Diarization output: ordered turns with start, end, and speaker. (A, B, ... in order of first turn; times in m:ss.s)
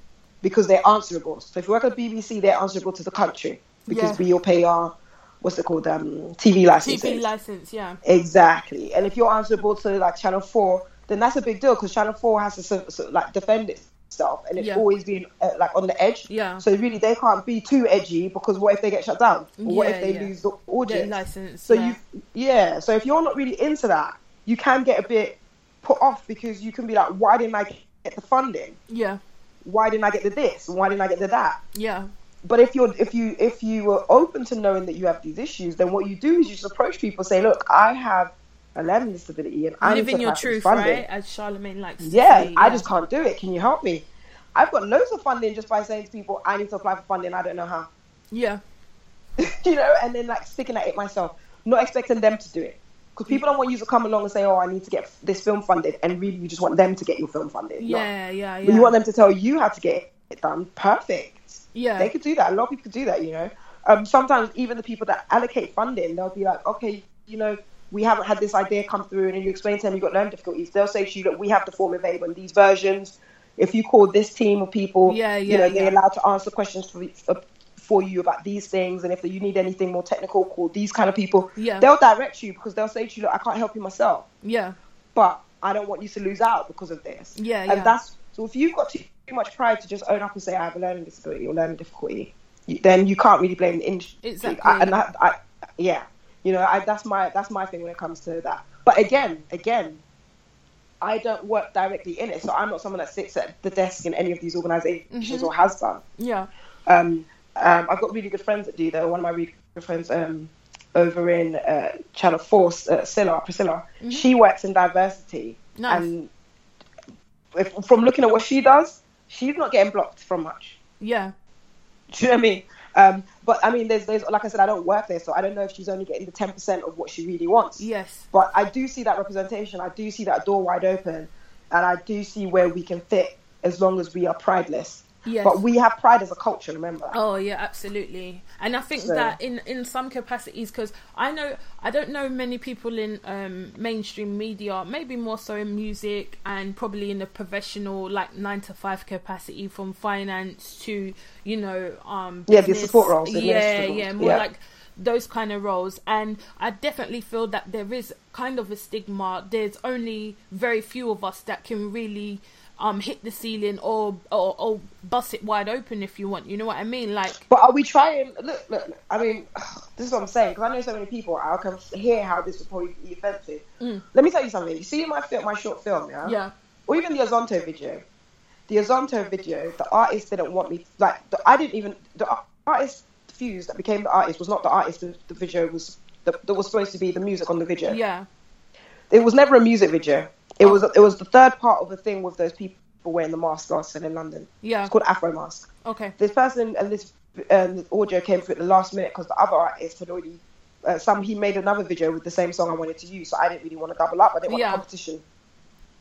0:00.4-0:07.2 A
0:03.9-0:04.2 B
0:06.8-0:08.0 B
0:08.0-0:28.8 A
0:14.6-0:14.8 B
0:16.3-0:16.7 B
0:19.6-0:20.3 B
0:20.9-0:22.0 B
0:28.9-0:29.2 B
0:29.6-0:31.6 A
0:31.7-0:32.1 B
0:32.4-0:41.0 A
0:39.8-0:42.9 B
0:42.0-0:47.9 A
0:48.3-0:48.6 B
0:49.4-0:58.1 A
0:57.8-0:59.0 B
0:58.6-1:24.3 A
1:01.8-1:02.1 B
1:15.1-1:16.0 B
1:21.6-1:21.9 B
1:24.4-1:24.8 B
1:25.2-1:40.0 A
1:27.4-1:27.9 B
1:34.2-1:35.0 B
1:41.0-1:46.0 A
1:45.1-1:45.5 B
1:46.2-1:46.5 B
1:46.9-1:56.3 A
1:54.0-1:54.3 B
1:55.8-1:56.1 B
1:57.5-2:00.8 A
2:01.0-2:01.3 B
2:02.1-2:17.2 A
2:07.8-2:08.3 B
2:15.2-2:15.6 B
2:17.1-2:47.4 B
2:19.0-2:19.4 A
2:32.5-2:34.4 A
2:47.5-2:53.6 A
2:54.1-2:58.0 A
2:56.2-2:56.5 B
2:58.7-3:08.0 A
3:07.9-3:08.3 B
3:09.1-3:15.7 A
3:14.6-3:14.9 B
3:15.8-3:16.2 B
3:16.2-3:25.2 A
3:24.5-3:24.8 B